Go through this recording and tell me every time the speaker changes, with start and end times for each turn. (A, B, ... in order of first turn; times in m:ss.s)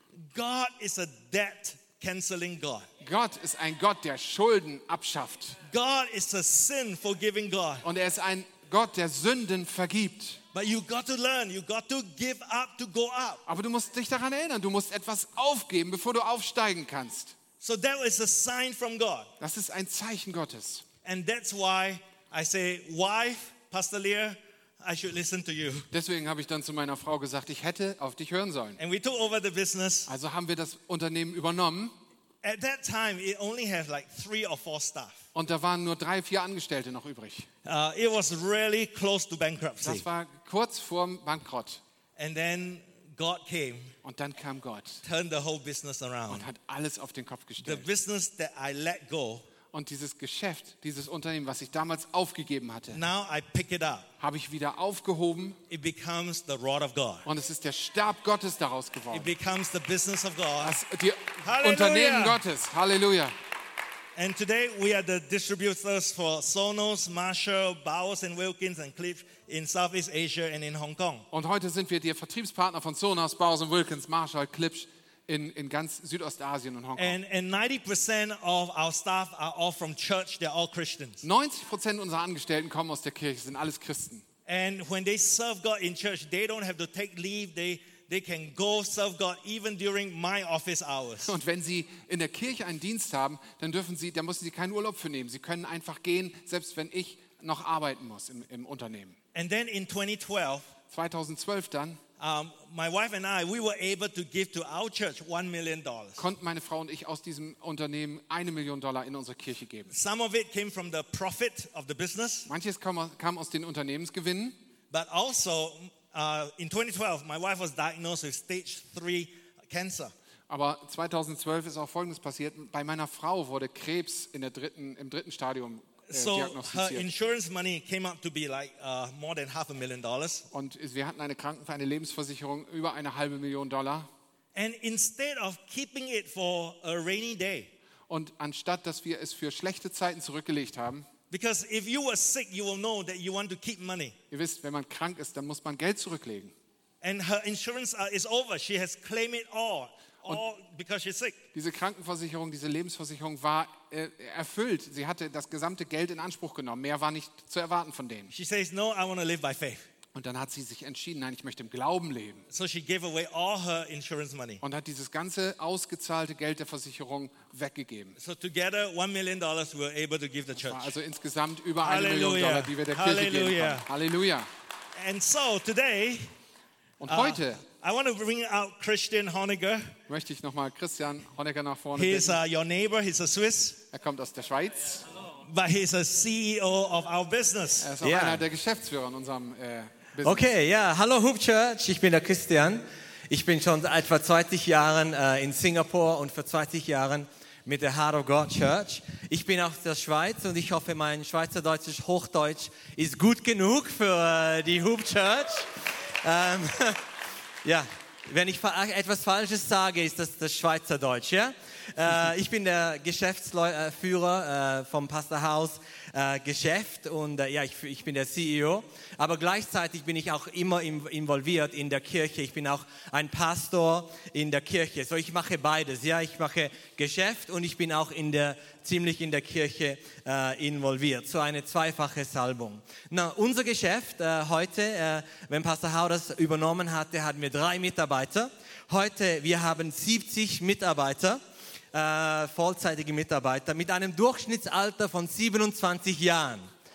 0:00.2-0:02.9 A
0:03.0-0:05.6 B
0:05.7-0:07.9 A
0:07.8-0:10.4 B
0:10.5-0:13.4 A
0:13.5-0:17.4 B
0:17.6-0:19.3 A
0:19.4-0:20.8 B
0:21.0-0:25.9 A
0:25.9-0:28.8 B
0:28.8-0:30.1 A
0:30.1-0:32.0 B
0:32.4-0:35.2 A
0:35.3-0:37.5 B
0:37.6-0:40.1 A
0:39.8-0:41.8 B
0:42.2-0:43.9 A
0:44.0-0:45.0 B
0:45.0-0:46.5 A
0:46.3-0:47.9 B
0:47.6-0:49.5 A
0:49.7-0:53.0 B
0:52.9-0:54.1 A
0:54.2-0:55.6 B
0:55.7-0:57.3 A
0:57.2-0:59.3 B
0:59.1-1:00.8 A
1:00.6-1:03.3 B
1:01.4-1:02.4 A
1:04.2-1:11.3 A
1:11.3-1:17.2 B
1:17.0-1:21.2 A
1:21.2-1:24.3 B
1:24.5-1:31.4 A
1:31.2-1:39.2 B
1:39.3-1:40.7 A
1:40.9-1:42.0 B
1:42.2-1:46.2 A
1:46.2-1:49.9 B
1:49.9-1:52.5 A
1:52.5-1:54.6 B
1:54.9-2:00.1 A
2:00.5-2:07.1 B
2:06.1-2:10.5 A
2:10.5-2:14.1 B
2:14.5-2:17.7 A
2:18.1-2:21.1 B
2:21.3-2:24.2 A
2:24.3-2:26.5 B
2:27.0-2:31.4 A
2:31.5-2:38.3 B
2:38.3-2:39.9 A
2:40.1-2:42.5 B
2:42.5-2:44.6 A
2:44.6-2:48.2 B
2:48.2-2:51.0 A
2:50.6-2:54.5 B
2:51.8-2:53.9 A
2:55.0-2:56.3 A
2:57.0-2:57.6 B
2:57.1-2:59.9 A
3:00.1-3:02.4 B
3:02.0-3:03.8 A
3:03.9-3:05.1 B
3:05.4-3:08.0 A
3:07.8-3:10.5 B
3:08.0-3:08.4 C
3:10.2-3:27.0 C
3:27.6-4:01.4 C
4:01.9-4:06.7 C